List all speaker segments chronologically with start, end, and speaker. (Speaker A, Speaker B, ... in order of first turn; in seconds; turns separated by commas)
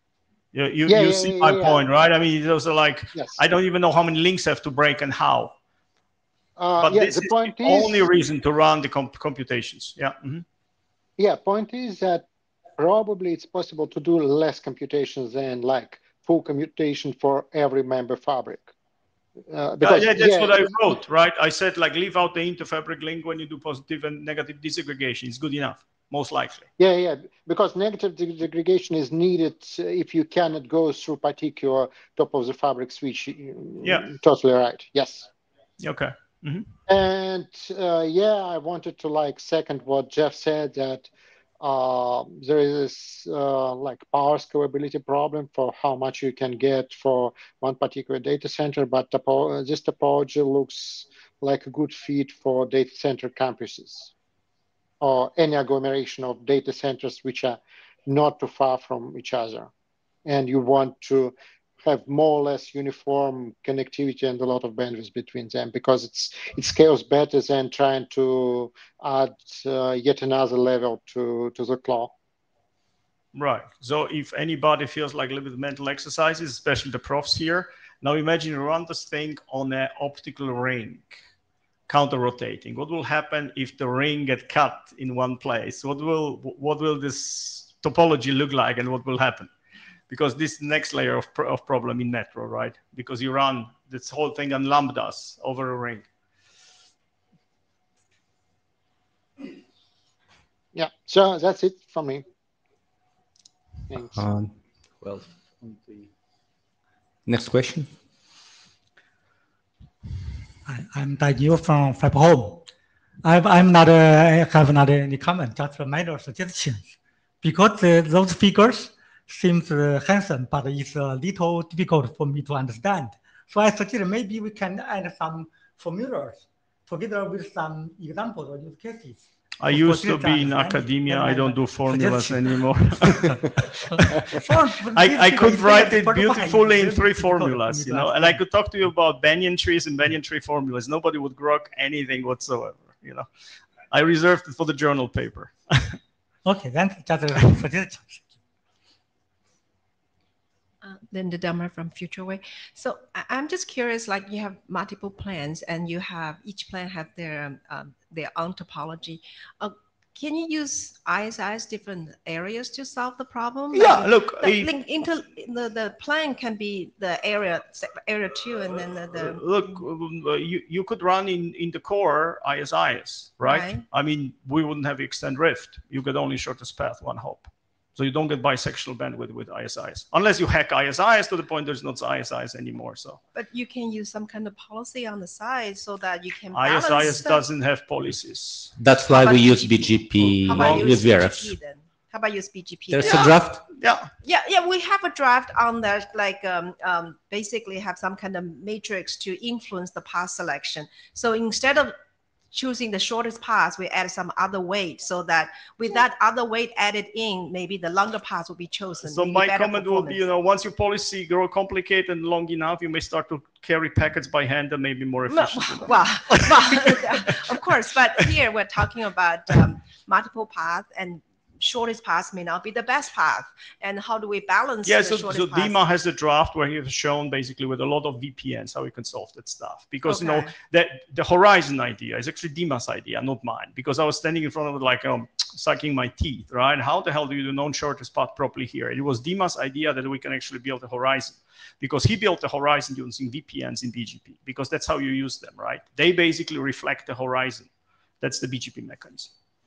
Speaker A: 0.5-5.5, Speaker B: 0.9-1.8, Speaker B: 3.1-3.4, Speaker B: 6.6-8.1, Speaker A: 6.8-10.4, Speaker B: 11.2-12.2, Speaker B: 12.8-18.7, Speaker B: 19.5-20.7, Speaker A: 19.8-26.6, Speaker B: 26.8-35.3, Speaker A: 33.8-34.1, Speaker A: 35.8-36.7, Speaker B: 36.9-41.1, Speaker B: 41.6-54.1, Speaker B: 55.0-59.7, Speaker B: 60.2-72.1, Speaker A: 73.3-81.2, Speaker A: 81.9-89.5, Speaker A: 90.1-96.0, Speaker B: 100.7-102.2, Speaker B: 103.9-104.2, Speaker C: 104.2-104.5, Speaker C: 107.2-107.9, Speaker D: 110.7-112.7, Speaker D: 113.2-133.3, Speaker A: 129.6-133.8, Speaker D: 134.3-138.4, Speaker A: 134.9-143.3, Speaker A: 143.9-146.0, Speaker D: 146.4-148.3, Speaker E: 150.8-169.4, Speaker A: 163.7-164.7, Speaker A: 169.1-183.2, Speaker E: 173.4-173.8, Speaker E: 183.3-187.5, Speaker A: 186.5-188.7, Speaker C: 188.8-191.6, Speaker E: 189.1-193.4, Speaker A: 190.3-191.0, Speaker C: 192.9-193.6, Speaker A: 193.0-194.1, Speaker E: 194.2-201.9, Speaker E: 202.5-210.2, Speaker A: 209.1-217.3, Speaker E: 215.3-225.8, Speaker A: 224.8-247.7, Speaker E: 230.0-230.5, Speaker A: 248.2-249.3